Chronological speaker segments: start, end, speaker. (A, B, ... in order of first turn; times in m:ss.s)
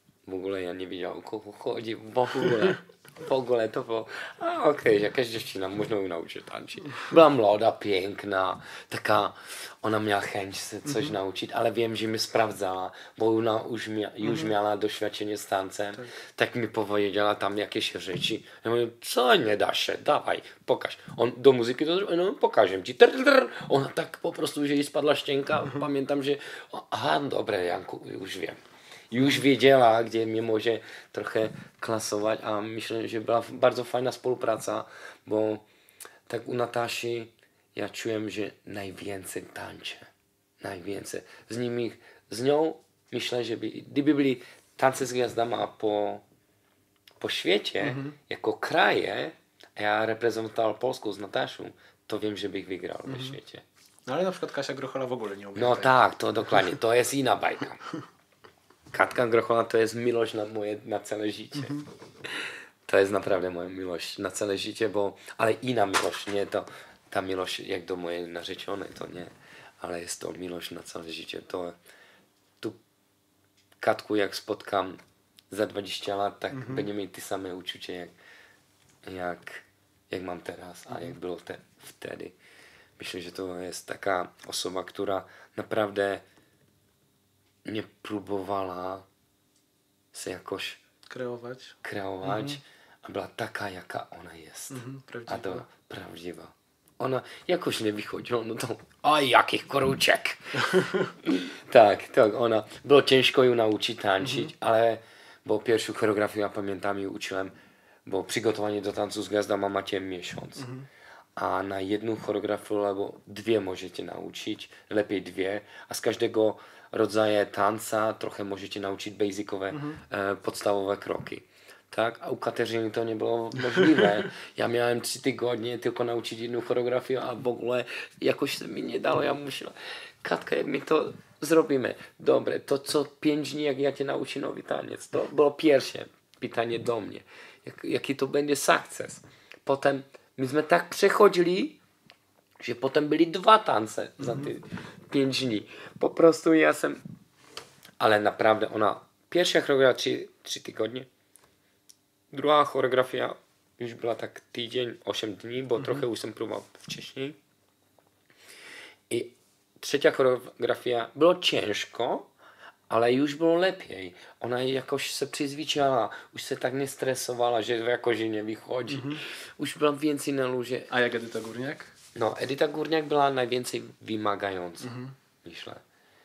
0:00.2-0:35.6 A
0:36.3-0:46.2 A
0:47.2-0:53.6 A
0:47.8-0:48.2 B
0:53.1-0:53.4 B
0:54.1-0:56.0 B
0:55.5-0:57.8 A
0:58.9-1:11.8 A
1:13.8-1:18.1 A
1:16.5-1:16.9 B
1:19.0-1:22.4 A
1:23.0-1:26.2 A
1:27.6-1:29.0 A
1:30.1-1:30.8 A
1:31.1-1:32.6 B
1:31.8-1:47.5 A
1:34.7-1:35.6 B
1:40.7-1:41.0 B
1:44.2-1:44.5 B
1:48.0-1:50.7 A
1:50.6-1:50.9 B
1:51.4-2:21.8 A
1:59.7-2:00.0 B
2:22.6-2:27.0 A
2:24.2-2:24.5 B
2:28.0-2:31.1 A
2:32.3-2:37.4 A
2:35.8-2:36.0 B
2:39.1-2:42.3 A
2:42.9-2:50.9 A
2:48.9-2:49.2 B
2:50.9-2:51.9 B
2:52.1-2:55.8 A
2:54.8-2:55.2 B